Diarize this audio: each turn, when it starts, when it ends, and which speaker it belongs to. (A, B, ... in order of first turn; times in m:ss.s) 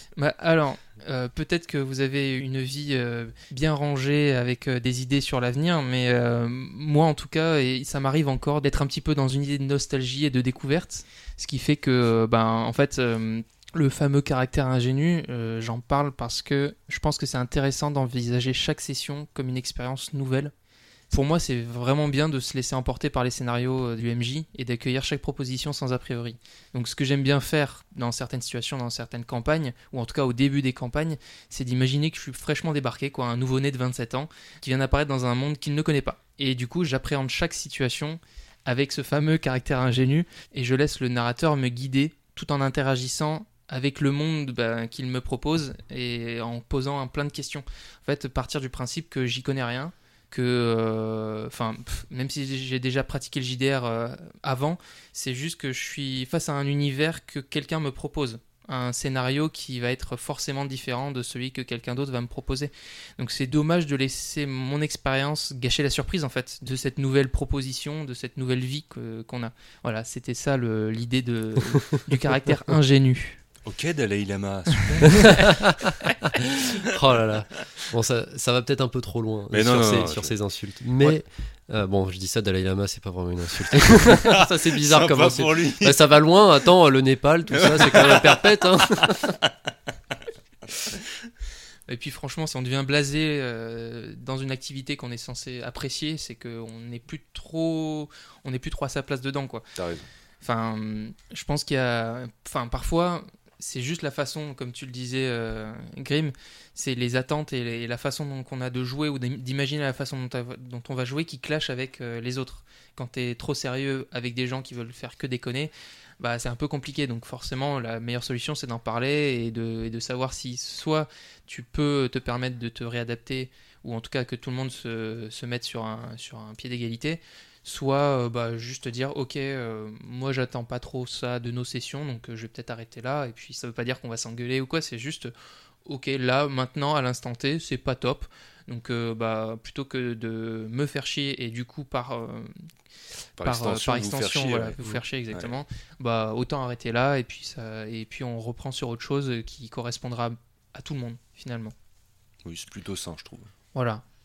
0:00.2-0:20.5 A
0:21.1-1:13.4 A
1:13.6-1:15.6 B
1:15.2-1:29.4 C
1:19.5-1:20.3 B
1:23.8-1:26.1 B
1:27.5-1:28.4 B
1:29.0-1:29.5 B
1:31.9-1:39.7 A
1:39.8-1:40.1 B
1:40.4-2:15.3 A
2:15.8-2:22.5 A
2:23.4-2:25.6 B
2:23.4-2:31.7 A
2:32.4-2:33.5 B
2:33.7-2:34.0 A